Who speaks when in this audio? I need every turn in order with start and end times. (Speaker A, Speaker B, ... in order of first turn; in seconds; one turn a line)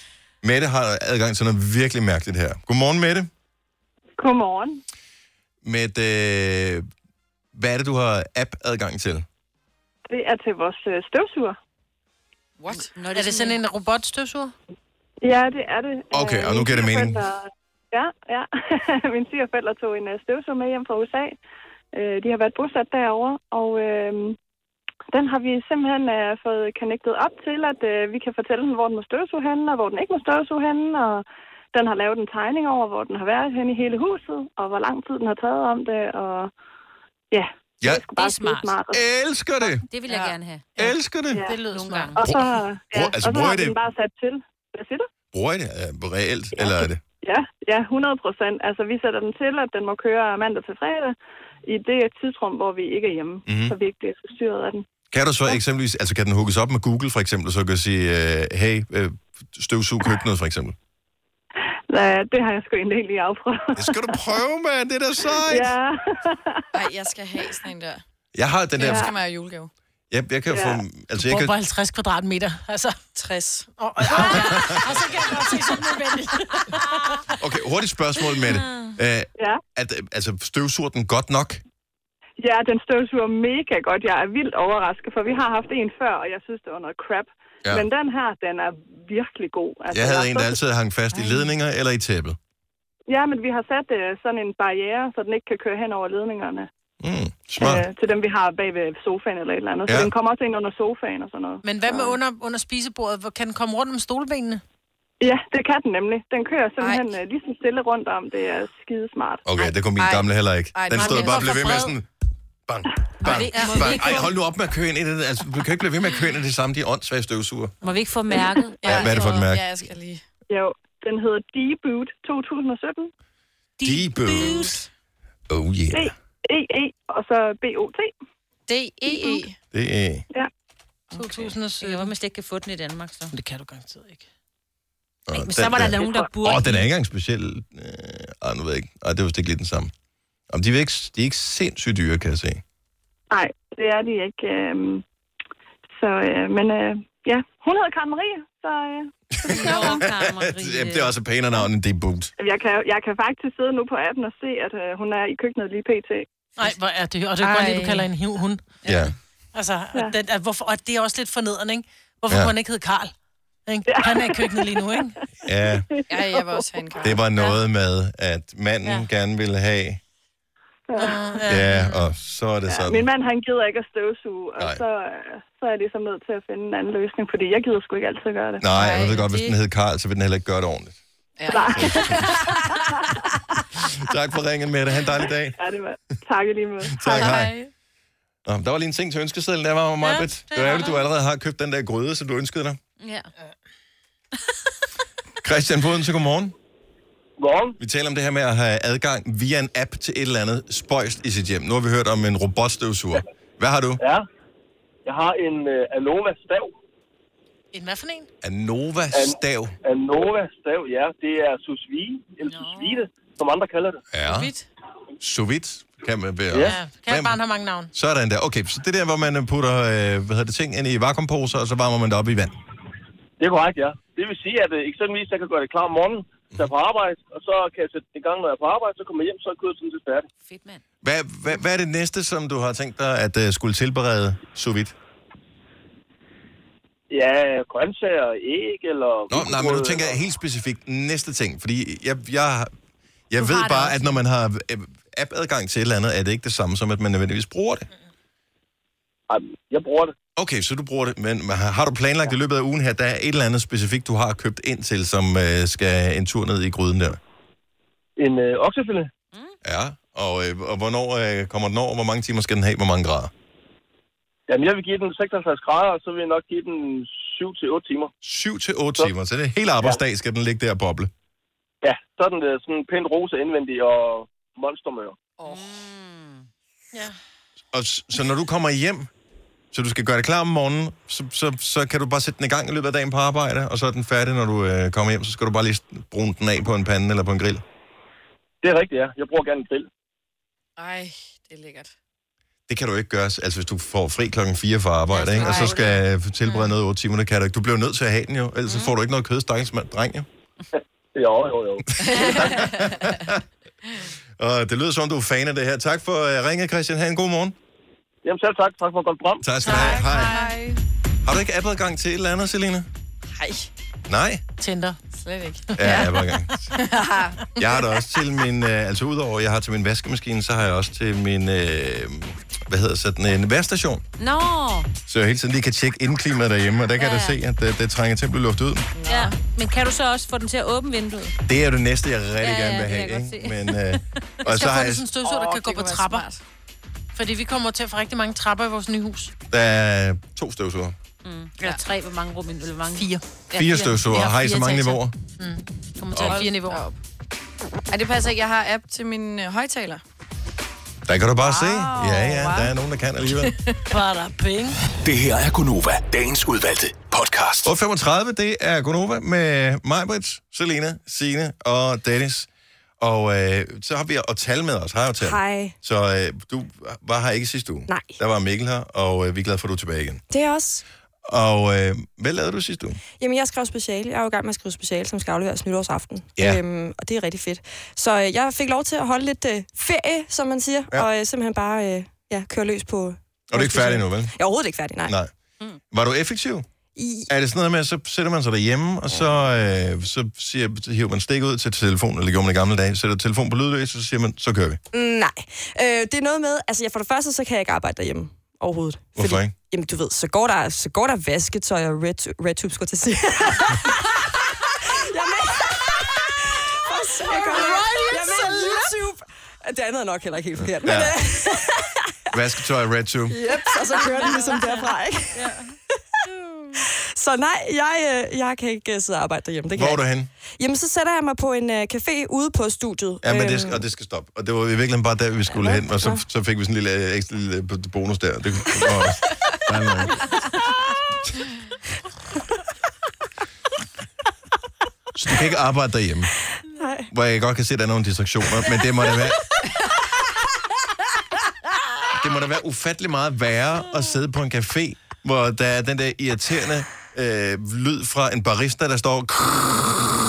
Speaker A: 0.4-3.3
Speaker B: 4.2-4.8
Speaker A: 5.6-6.9
Speaker A: 7.5-9.2
Speaker B: 10.1-11.6
Speaker C: 12.6-12.9
Speaker D: 12.9-13.6
Speaker E: 13.1-14.5
Speaker B: 15.2-21.4
Speaker A: 16.1-17.2
Speaker B: 21.9-24.4
Speaker B: 25.1-36.5
Speaker B: 37.3-39.0
Speaker A: 37.8-38.1
Speaker D: 38.2-38.8
Speaker A: 38.9-39.9
Speaker D: 39.9-40.8
Speaker C: 40.1-40.4
Speaker A: 40.8-41.4
Speaker E: 41.4-42.2
Speaker D: 41.6-42.2
Speaker A: 42.2-43.8
Speaker B: 42.2-45.1
Speaker A: 45.3-47.0
Speaker B: 46.6-54.8
Speaker A: 53.5-53.8
Speaker A: 55.1-60.8
Speaker B: 61.9-64.2
Speaker A: 63.8-65.7
Speaker B: 65.3-66.7
Speaker C: 66.7-68.0
Speaker A: 68.3-69.1
Speaker C: 68.8-69.7
Speaker B: 68.8-69.1
Speaker A: 70.1-71.5
Speaker B: 70.5-70.8
Speaker E: 71.2-73.0
Speaker C: 73.2-73.7
Speaker E: 73.8-77.3
Speaker A: 74.1-74.9
Speaker A: 77.4-81.6
Speaker D: 78.5-78.9
Speaker B: 82.4-90.6
Speaker A: 89.9-92.4
Speaker B: 93.1-96.7
Speaker A: 97.0-97.9
Speaker B: 97.6-102.2
Speaker A: 99.9-100.1
Speaker E: 101.6-104.6
Speaker B: 105.2-109.4
Speaker C: 106.8-107.1
Speaker A: 109.5-112.1
Speaker C: 109.6-111.7
Speaker E: 110.9-112.0
Speaker A: 112.7-117.8
Speaker D: 113.2-114.3
Speaker E: 113.3-113.9
Speaker D: 117.8-119.4
Speaker C: 118.8-120.2
Speaker A: 118.8-119.8
Speaker B: 120.5-123.1
Speaker D: 123.8-124.8
Speaker A: 123.8-124.7
Speaker A: 125.5-126.1
Speaker B: 125.9-128.1
Speaker C: 128.7-129.6
Speaker A: 129.7-130.2
Speaker C: 131.1-131.5
Speaker E: 131.2-132.1
Speaker D: 131.8-133.3
Speaker E: 133.3-134.3
Speaker A: 135.3-139.9
Speaker D: 135.3-136.8
Speaker A: 140.5-142.6
Speaker B: 143.3-145.0
Speaker B: 145.9-149.8
Speaker A: 149.4-152.3
Speaker D: 149.5-151.1
Speaker B: 152.4-156.3
Speaker E: 156.6-158.8
Speaker C: 157.4-158.1
Speaker A: 158.8-159.1
Speaker E: 159.5-163.1
Speaker A: 162.3-162.5
Speaker E: 163.7-165.2
Speaker B: 163.9-164.8
Speaker A: 165.4-165.9
Speaker C: 166.1-167.2
Speaker A: 167.0-170.0
Speaker B: 170.9-171.4
Speaker E: 171.0-172.1
Speaker A: 171.5-173.1
Speaker B: 172.7-178.7
Speaker A: 178.6-181.0
Speaker C: 178.7-179.3
Speaker C: 181.4-182.9
Speaker B: 181.5-182.2
Speaker A: 181.5-182.5
Speaker A: 183.8-185.6
Speaker B: 185.6-187.4
Speaker A: 186.9-187.6
Speaker C: 187.1-187.7
Speaker A: 188.5-192.8
Speaker E: 190.0-191.0
Speaker D: 193.0-193.3
Speaker A: 195.4-196.6
Speaker F: 197.4-197.8
Speaker A: 197.8-204.0
Speaker F: 204.0-204.2
Speaker F: 205.1-206.7
Speaker E: 207.7-208.3
Speaker A: 208.4-209.8
Speaker F: 209.1-214.0
Speaker D: 212.5-213.0
Speaker A: 214.1-214.5
Speaker C: 214.2-214.7
Speaker A: 215.2-217.4
Speaker F: 216.5-216.8
Speaker E: 216.6-217.9
Speaker A: 217.9-222.6
Speaker F: 223.4-230.3
Speaker D: 230.4-230.8
Speaker A: 231.0-234.9
Speaker F: 237.1-240.2
Speaker A: 239.3-242.7
Speaker A: 243.3-247.9
Speaker D: 243.4-244.1
Speaker F: 249.3-250.2
Speaker A: 250.4-257.2
Speaker F: 258.2-259.1
Speaker A: 259.6-263.3
Speaker F: 264.5-268.1
Speaker A: 268.2-271.1
Speaker F: 271.8-275.2
Speaker C: 275.4-275.7
Speaker D: 275.4-276.5
Speaker A: 277.7-279.1
Speaker A: 279.7-287.6
Speaker F: 288.6-289.9
Speaker C: 290.8-291.9
Speaker A: 292.7-300.3
Speaker D: 295.1-296.0
Speaker D: 298.7-298.9
Speaker F: 301.1-301.9
Speaker C: 302.0-303.2
Speaker A: 302.0-303.4
Speaker D: 302.2-302.6
Speaker A: 304.4-307.6
Speaker F: 308.2-309.5
Speaker A: 309.4-310.4
Speaker E: 309.6-310.6
Speaker C: 309.6-310.8
Speaker A: 311.2-312.9
Speaker C: 313.3-313.7
Speaker A: 314.1-314.4
Speaker E: 314.6-315.0
Speaker C: 315.1-316.2
Speaker E: 315.7-316.6
Speaker A: 315.8-316.7
Speaker C: 316.8-317.8
Speaker A: 317.6-324.0
Speaker D: 324.2-324.9
Speaker A: 325.1-328.9
Speaker D: 327.0-327.4
Speaker C: 329.0-329.4
Speaker D: 329.1-331.4
Speaker A: 331.5-335.1
Speaker D: 332.4-333.8
Speaker E: 334.5-336.3
Speaker C: 335.2-336.4
Speaker E: 337.1-339.3
Speaker A: 339.5-341.0
Speaker D: 341.2-343.1
Speaker E: 342.9-346.8
Speaker A: 343.5-345.1
Speaker A: 346.1-346.4
Speaker C: 346.2-347.0
Speaker C: 347.9-350.0
Speaker A: 351.1-353.6
Speaker C: 351.4-352.7
Speaker C: 353.3-353.8
Speaker E: 353.9-354.8
Speaker G: 355.0-357.7
Speaker A: 357.6-362.5
Speaker A: 363.0-370.2
Speaker H: 365.2-365.8
Speaker H: 367.9-368.2
Speaker H: 370.3-370.8
Speaker A: 371.2-373.0
Speaker H: 373.1-385.1
Speaker A: 376.4-376.6
Speaker A: 383.5-384.4
Speaker A: 385.1-385.3
Speaker A: 385.9-386.7
Speaker H: 386.9-387.3
Speaker A: 387.3-394.8
Speaker H: 394.9-404.3
Speaker A: 399.2-399.5
Speaker H: 405.0-412.4
Speaker D: 407.6-408.1
Speaker A: 410.8-411.2
Speaker A: 412.3-413.5
Speaker H: 413.3-415.5
Speaker D: 414.2-415.7
Speaker H: 416.8-423.9
Speaker A: 419.8-420.3
Speaker A: 423.2-430.3
Speaker H: 425.5-426.2
Speaker A: 435.2-436.3
Speaker H: 436.8-437.1
Speaker A: 437.1-439.4
Speaker A: 442.1-449.7